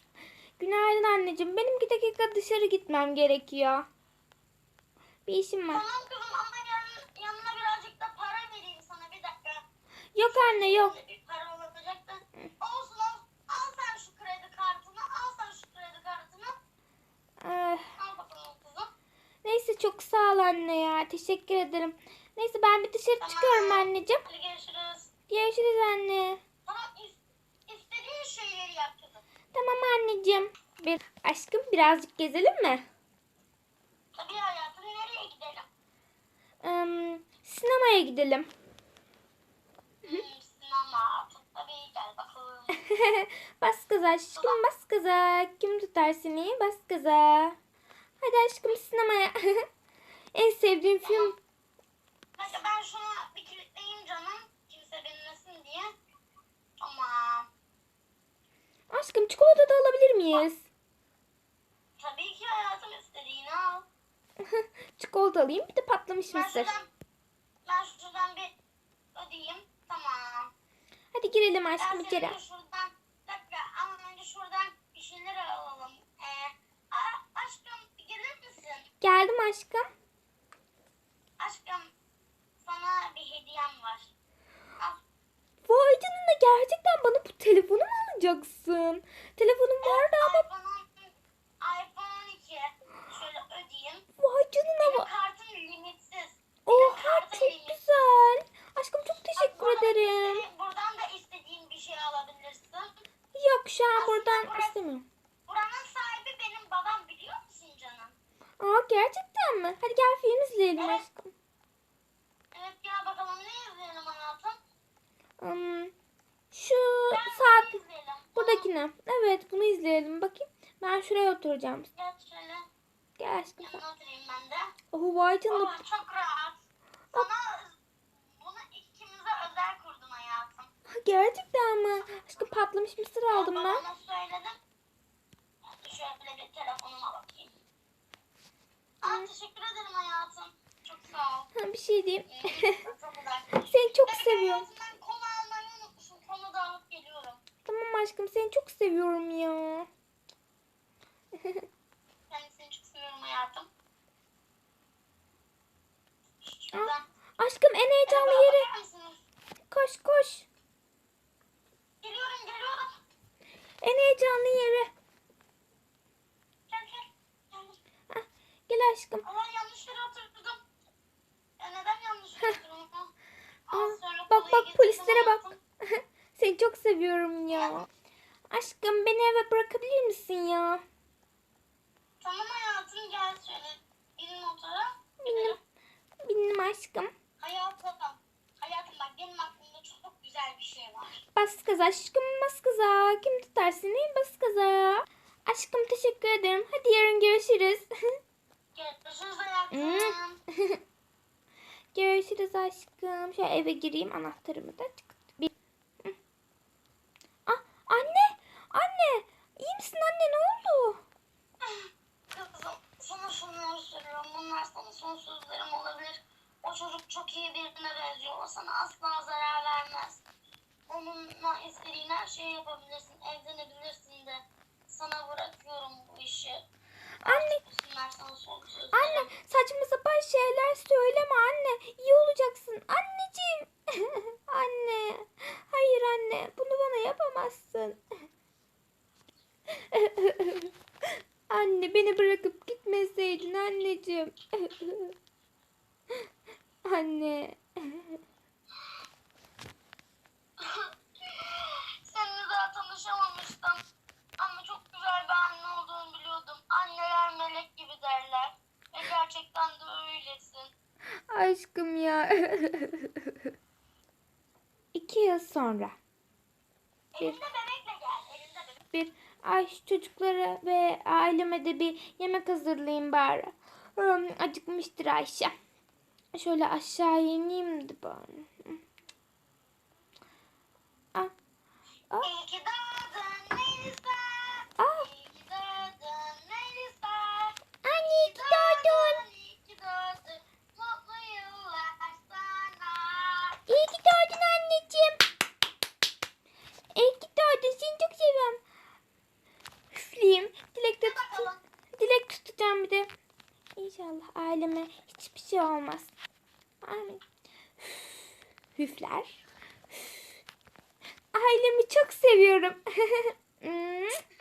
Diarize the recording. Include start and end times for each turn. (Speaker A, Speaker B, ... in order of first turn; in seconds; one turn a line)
Speaker A: 0.6-3.9
Speaker A: 5.2-5.8
Speaker B: 5.7-9.6
Speaker A: 10.1-10.9
Speaker B: 10.2-16.5
Speaker A: 17.4-17.9
Speaker B: 18.0-18.9
Speaker A: 19.4-24.2
Speaker B: 23.2-25.1
Speaker A: 25.3-26.4
Speaker B: 26.6-29.2
Speaker A: 29.5-32.8
Speaker B: 34.1-35.7
Speaker A: 36.6-38.5
Speaker B: 40.0-42.8
Speaker A: 42.8-47.5
Speaker A: 48.2-49.6
Speaker A: 50.3-51.3
Speaker B: 51.0-51.3
Speaker B: 52.4-55.9
Speaker B: 56.8-57.5
Speaker A: 58.9-60.6
Speaker B: 62.0-63.9
Speaker A: 64.5-66.7
Speaker B: 66.3-66.9
Speaker B: 67.6-68.5
Speaker B: 69.1-70.5
Speaker A: 71.1-72.4
Speaker B: 71.8-78.9
Speaker A: 79.0-79.9
Speaker B: 81.4-81.9
Speaker B: 82.6-84.1
Speaker A: 85.6-90.4
Speaker B: 89.8-94.0
Speaker A: 94.2-95.1
Speaker B: 94.8-97.8
Speaker A: 96.7-100.4
Speaker B: 99.4-102.9
Speaker A: 103.3-105.0
Speaker B: 104.0-104.8
Speaker B: 105.5-108.1
Speaker A: 108.6-111.3
Speaker B: 110.8-111.0
Speaker B: 112.5-114.5
Speaker A: 115.4-115.9
Speaker A: 116.5-117.8
Speaker B: 117.1-118.7
Speaker A: 118.3-121.9
Speaker B: 121.9-122.7
Speaker A: 123.2-123.7
Speaker B: 123.6-124.7
Speaker A: 124.9-125.7
Speaker B: 125.5-126.6
Speaker B: 127.1-130.7
Speaker A: 130.9-133.8
Speaker B: 132.2-132.5
Speaker B: 133.3-134.6
Speaker B: 135.7-137.5
Speaker B: 139.0-141.5
Speaker A: 141.5-142.8
Speaker B: 142.3-147.4
Speaker A: 143.7-144.7
Speaker A: 147.6-149.9
Speaker B: 152.3-153.7
Speaker B: 156.4-157.0
Speaker A: 156.7-158.7
Speaker B: 158.1-159.2
Speaker A: 159.7-160.5
Speaker B: 162.0-163.0
Speaker A: 163.8-164.9
Speaker B: 166.7-167.8
Speaker A: 168.1-169.2
Speaker B: 169.2-170.6
Speaker B: 171.6-173.1
Speaker B: 173.7-175.6
Speaker A: 173.7-177.9
Speaker B: 177.5-177.8
Speaker A: 178.5-180.8
Speaker B: 182.2-185.6
Speaker A: 185.2-185.6
Speaker A: 186.2-187.1
Speaker B: 187.4-191.2
Speaker A: 191.3-197.9
Speaker B: 198.7-200.4
Speaker A: 199.7-200.8
Speaker A: 201.9-205.5
Speaker A: 207.4-211.0
Speaker B: 211.6-220.2
Speaker B: 220.9-226.6
Speaker A: 227.2-227.6
Speaker B: 227.2-229.3
Speaker A: 228.9-238.0
Speaker A: 239.9-240.7
Speaker A: 241.5-245.1
Speaker A: 246.8-248.2
Speaker B: 250.6-253.8
Speaker B: 254.4-260.7
Speaker A: 261.3-263.3
Speaker A: 264.9-265.9
Speaker B: 267.1-268.8
Speaker A: 268.9-275.5
Speaker A: 276.3-278.8
Speaker B: 282.2-287.6
Speaker A: 284.8-285.1
Speaker A: 287.8-289.2
Speaker B: 288.1-293.6
Speaker A: 293.7-295.2
Speaker A: 296.9-298.6
Speaker A: 299.9-303.1
Speaker B: 301.0-301.6
Speaker A: 303.8-306.1
Speaker A: 306.8-307.2
Speaker A: 307.8-309.4
Speaker A: 311.3-314.2